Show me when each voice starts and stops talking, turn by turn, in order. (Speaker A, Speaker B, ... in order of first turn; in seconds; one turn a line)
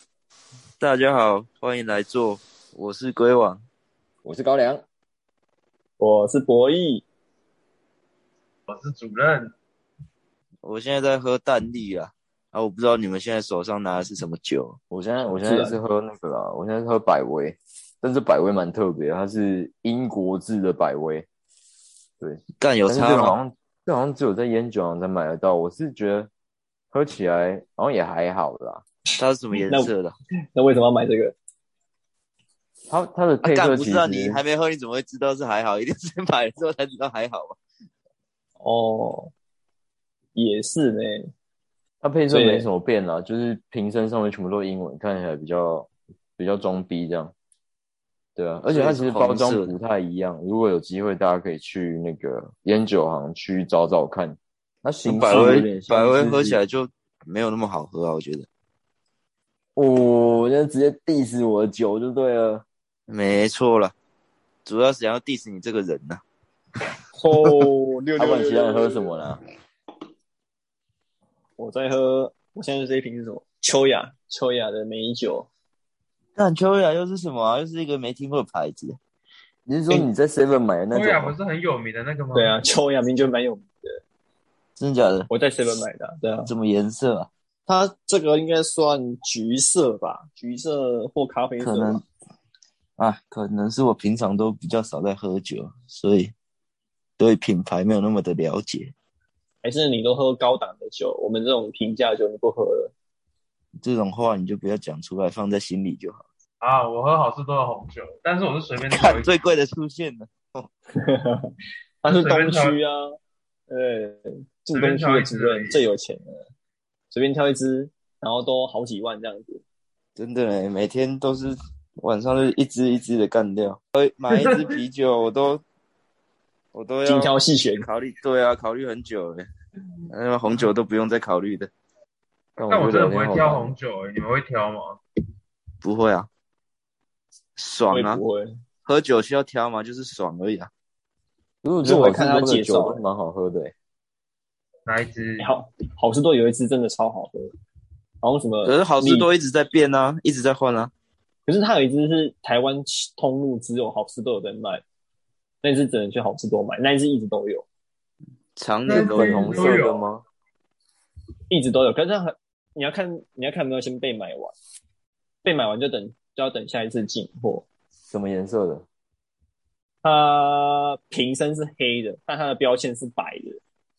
Speaker A: 0.8-3.6
Speaker B: 4.2-4.8
Speaker C: 6.0-7.0
Speaker D: 8.7-9.5
Speaker A: 10.6-14.8
Speaker B: 14.9-21.3
Speaker C: 15.3-15.8
Speaker B: 22.2-26.3
Speaker A: 22.6-23.4
Speaker B: 26.9-28.8
Speaker A: 29.2-30.1
Speaker C: 29.6-29.9
Speaker C: 30.6-31.3
Speaker B: 32.9-34.4
Speaker A: 33.4-37.6
Speaker C: 38.6-39.3
Speaker C: 40.3-41.3
Speaker B: 42.0-47.3
Speaker C: 42.3-42.7
Speaker B: 48.4-56.6
Speaker A: 48.7-49.7
Speaker A: 55.0-58.5
Speaker C: 55.3-55.6
Speaker B: 59.8-62.6
Speaker A: 63.1-64.0
Speaker A: 64.6-66.2
Speaker C: 67.2-69.1
Speaker B: 68.2-69.4
Speaker C: 71.6-75.5
Speaker A: 76.4-79.0
Speaker B: 79.7-81.4
Speaker D: 80.9-82.5
Speaker C: 82.3-84.0
Speaker A: 84.8-85.3
Speaker C: 85.3-86.5
Speaker A: 86.5-87.3
Speaker C: 87.7-92.0
Speaker A: 91.6-92.0
Speaker A: 93.0-96.3
Speaker A: 97.2-98.9
Speaker C: 99.6-102.9
Speaker A: 103.8-106.2
Speaker D: 106.6-109.3
Speaker A: 108.9-110.7
Speaker C: 110.9-111.5
Speaker C: 112.0-113.1
Speaker D: 112.1-112.8
Speaker C: 113.7-116.4
Speaker D: 114.7-115.8
Speaker C: 117.1-119.6
Speaker A: 120.2-125.6
Speaker D: 124.3-124.7
Speaker A: 126.7-129.5
Speaker C: 127.0-127.8
Speaker A: 130.1-131.7
Speaker B: 132.6-133.8
Speaker D: 132.7-135.0
Speaker A: 135.8-136.3
Speaker A: 137.6-138.2
Speaker C: 137.9-138.5
Speaker A: 138.8-140.7
Speaker B: 141.6-143.7
Speaker C: 141.8-143.0
Speaker D: 144.8-145.5
Speaker C: 145.4-147.5
Speaker C: 148.2-149.3
Speaker A: 148.6-150.9
Speaker C: 151.5-154.8
Speaker C: 155.6-157.7
Speaker A: 158.6-159.8
Speaker D: 158.8-160.0
Speaker B: 158.9-160.2
Speaker C: 161.5-164.5
Speaker C: 165.4-167.7
Speaker B: 168.1-168.8
Speaker C: 170.0-173.6